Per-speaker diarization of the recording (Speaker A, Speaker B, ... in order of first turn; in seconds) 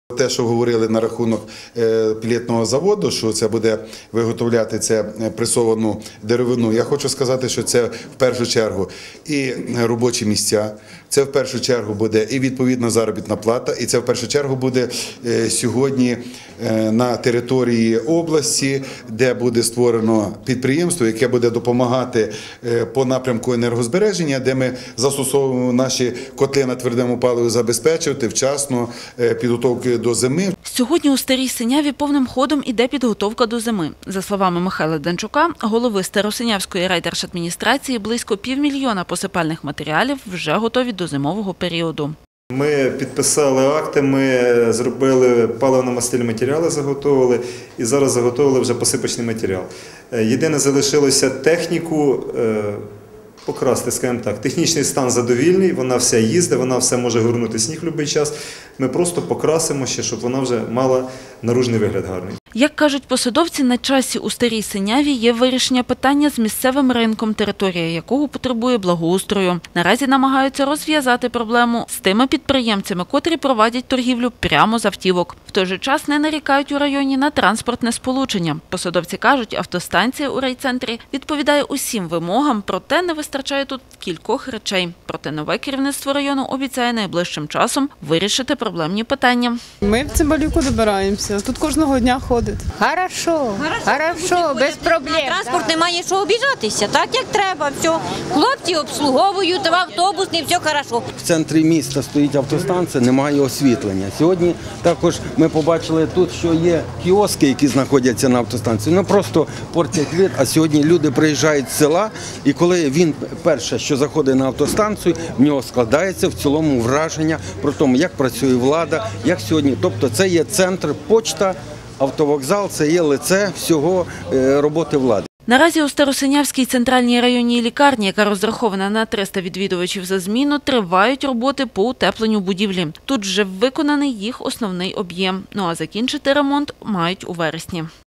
Speaker A: 0.1-30.5
Speaker B: 30.6-42.1, 62.5-89.6, 125.5-137.9
Speaker C: 42.5-52.8, 53.5-62.4
Speaker D: 89.8-95.8
Speaker E: 93.6-101.0
Speaker F: 101.2-125.3